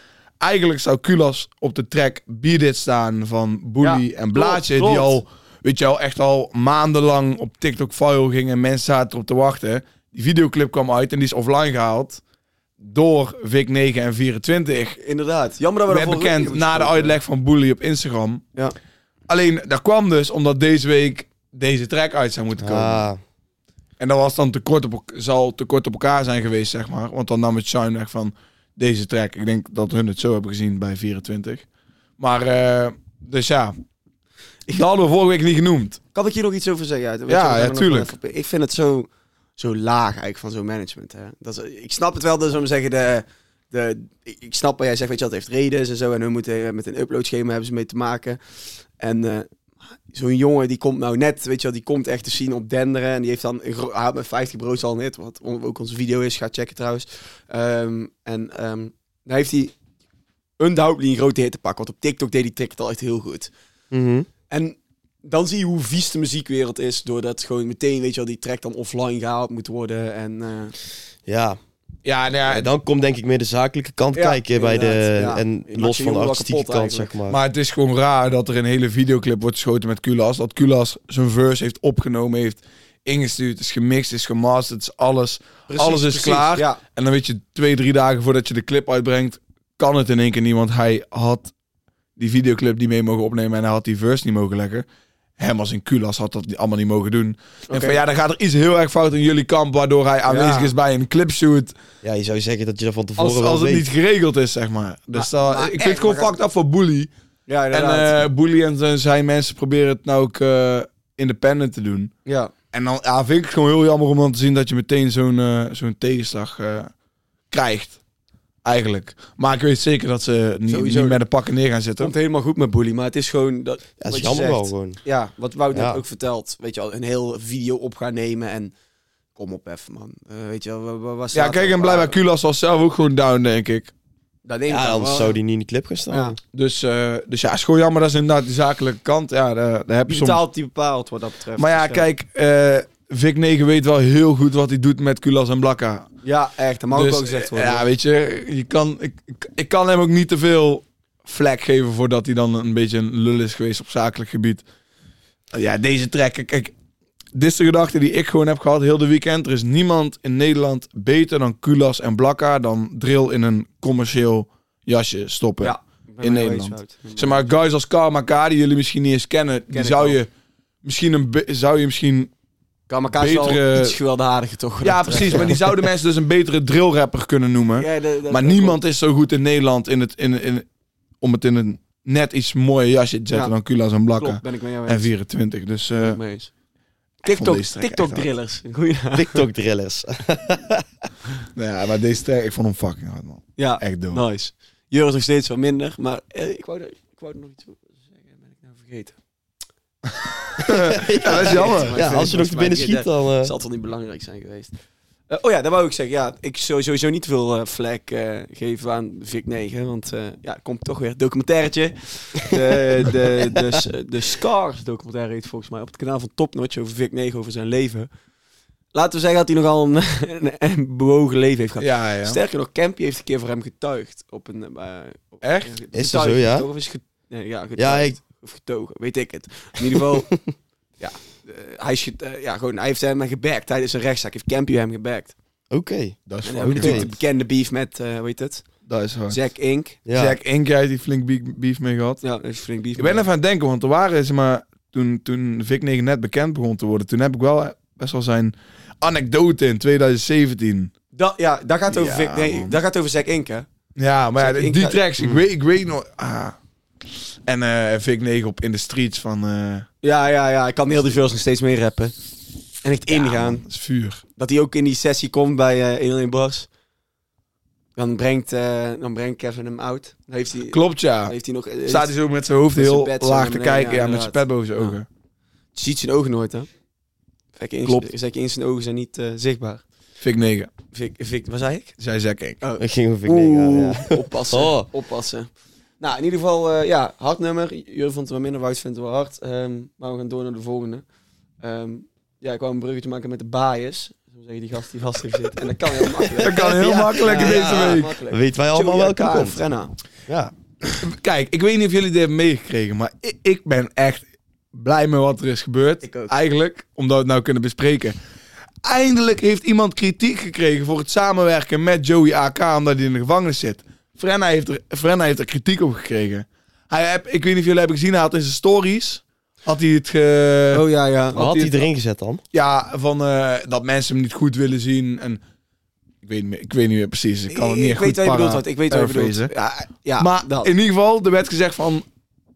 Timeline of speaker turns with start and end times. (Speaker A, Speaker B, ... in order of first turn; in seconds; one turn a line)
Speaker A: 0.4-12.2
Speaker B: 3.8-5.2
Speaker A: 12.8-15.0
Speaker B: 15.0-17.1
Speaker A: 15.9-18.4
Speaker A: 19.3-23.1
Speaker C: 22.6-23.2
Speaker A: 24.0-31.6
Speaker A: 32.2-33.7
Speaker A: 34.7-36.0
Speaker B: 36.1-48.4
Speaker A: 37.3-38.1
Speaker B: 49.0-49.5
Speaker B: 50.1-59.7
Speaker B: 60.6-63.5
Speaker C: 63.9-64.3
Speaker B: 64.5-70.7
Speaker C: 71.2-71.6
Speaker A: 72.0-72.7
Speaker C: 72.5-77.4
Speaker B: 74.1-77.1
Speaker A: 77.3-91.5
Speaker B: 85.7-86.8
Speaker A: 92.2-94.9
Speaker A: 95.4-101.8
Speaker B: 97.7-98.0
Speaker B: 100.3-100.7
Speaker C: 102.0-103.9
Speaker A: 103.2-107.1
Speaker B: 105.1-106.4
Speaker B: 107.5-108.2
Speaker A: 107.7-112.1
Speaker B: 112.2-112.5
Speaker A: 112.7-116.9
Speaker A: 117.5-118.0
Speaker A: 118.6-122.1
Speaker B: 120.7-121.2
Speaker B: 122.0-128.7
Speaker C: 124.0-125.0
Speaker C: 125.7-126.0
Speaker B: 129.4-132.2
Speaker A: 131.3-133.9
Speaker B: 134.4-135.4
Speaker C: 134.7-136.4
Speaker B: 136.1-136.4
Speaker A: 136.5-140.4
Speaker B: 140.1-142.1
Speaker A: 141.6-146.1
Speaker B: 146.2-147.8
Speaker A: 146.9-154.6
Speaker A: 155.5-156.7
Speaker A: 157.3-170.3
Speaker B: 165.6-167.5
Speaker B: 169.7-170.2
Speaker A: 170.8-172.3
Speaker B: 172.9-175.7
Speaker A: 173.1-174.0
Speaker A: 174.8-180.7
Speaker B: 177.8-178.8
Speaker A: 181.2-186.2
Speaker B: 184.2-185.1
Speaker B: 186.0-186.5
Speaker B: 187.2-189.4
Speaker A: 187.3-188.3
Speaker C: 189.1-190.8
Speaker A: 191.6-194.2
Speaker B: 193.6-199.1
Speaker A: 200.1-202.2
Speaker C: 200.7-203.5
Speaker B: 201.0-204.7
Speaker B: 205.3-218.1
Speaker C: 212.5-212.8
Speaker C: 213.5-213.8
Speaker B: 218.9-230.3
Speaker A: 221.8-222.4
Speaker A: 225.4-225.7
Speaker C: 225.9-226.7
Speaker C: 227.8-228.2
Speaker C: 229.9-230.4
Speaker B: 231.0-235.3
Speaker C: 235.7-237.1
Speaker A: 236.3-237.1
Speaker B: 236.4-238.7
Speaker A: 238.9-239.4
Speaker B: 239.3-240.0
Speaker C: 240.1-240.4
Speaker A: 240.1-242.2
Speaker B: 242.2-243.3
Speaker A: 243.0-250.9
Speaker B: 251.1-253.7
Speaker A: 251.9-252.8
Speaker A: 254.0-256.6
Speaker B: 254.4-255.0
Speaker A: 257.4-259.9
Speaker B: 260.0-262.1
Speaker B: 262.8-263.6
Speaker A: 263.1-264.2
Speaker B: 264.4-266.7
Speaker B: 267.9-272.1
Speaker A: 270.7-271.4
Speaker A: 271.9-275.1
Speaker B: 272.7-274.9
Speaker B: 275.7-276.7
Speaker B: 277.6-279.8
Speaker A: 277.9-278.1
Speaker A: 280.2-280.7
Speaker B: 280.9-281.9
Speaker A: 282.0-282.6
Speaker B: 282.6-291.0
Speaker C: 282.8-284.9
Speaker B: 291.6-299.9
Speaker A: 296.4-298.1
Speaker C: 296.4-299.6
Speaker C: 300.3-300.5
Speaker A: 301.0-308.1
Speaker B: 306.0-306.3
Speaker A: 308.8-320.8
Speaker B: 320.7-321.4
Speaker C: 321.4-322.4
Speaker A: 321.4-321.9
Speaker A: 322.5-325.4
Speaker A: 326.2-329.5
Speaker B: 327.5-330.7
Speaker A: 330.2-332.0